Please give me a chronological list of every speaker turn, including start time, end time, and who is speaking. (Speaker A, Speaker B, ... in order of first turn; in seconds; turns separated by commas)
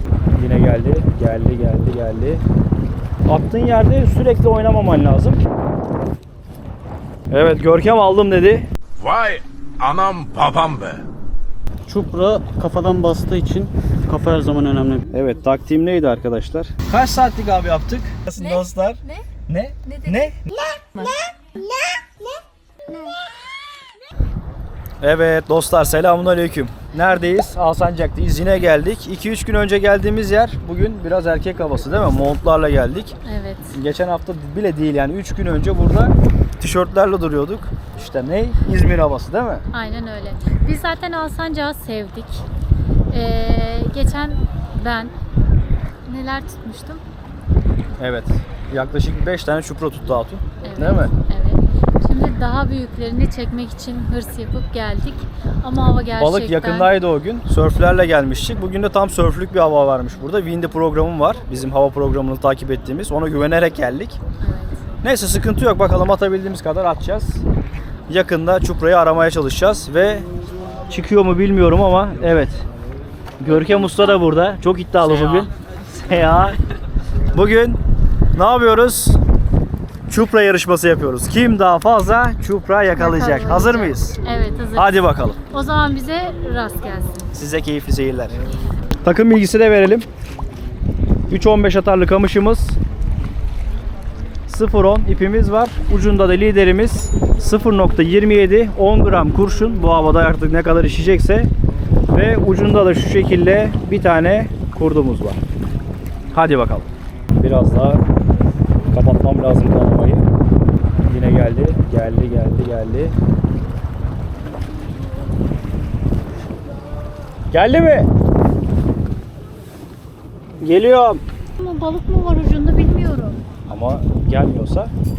Speaker A: 0.3-2.4, Speaker A: 3.3-5.4, Speaker A: 7.3-8.7, Speaker B: 9.0-11.0, Speaker C: 11.9-15.1, Speaker A: 15.1-20.5, Speaker D: 18.4-19.2, Speaker D: 19.9-20.3, Speaker D: 20.9-21.2, Speaker A: 25.0-33.2, Speaker D: 33.2-33.8, Speaker A: 33.7-39.6, Speaker D: 39.7-42.5, Speaker D: 43.1-45.1, Speaker D: 46.1-47.0, Speaker A: 48.0-51.1, Speaker D: 50.6-56.9, Speaker A: 56.2-64.2, Speaker D: 64.4-64.8, Speaker A: 65.0-67.4, Speaker A: 68.1-70.3, Speaker A: 70.9-72.6, Speaker A: 73.4-76.6, Speaker D: 73.5-74.2, Speaker C: 75.0-75.5, Speaker A: 77.3-77.8, Speaker A: 78.3-79.2, Speaker A: 80.1-84.2, Speaker D: 82.9-87.3, Speaker A: 84.8-85.4, Speaker A: 87.3-88.4, Speaker A: 89.0-90.1, Speaker A: 91.3-92.8, Speaker A: 94.5-101.5, Speaker A: 102.1-105.4, Speaker A: 106.3-106.9, Speaker A: 107.4-108.0, Speaker A: 108.9-110.3, Speaker A: 111.1-113.2, Speaker A: 117.5-118.1, Speaker A: 120.6-121.2, Speaker D: 121.6-123.4, Speaker A: 123.7-124.9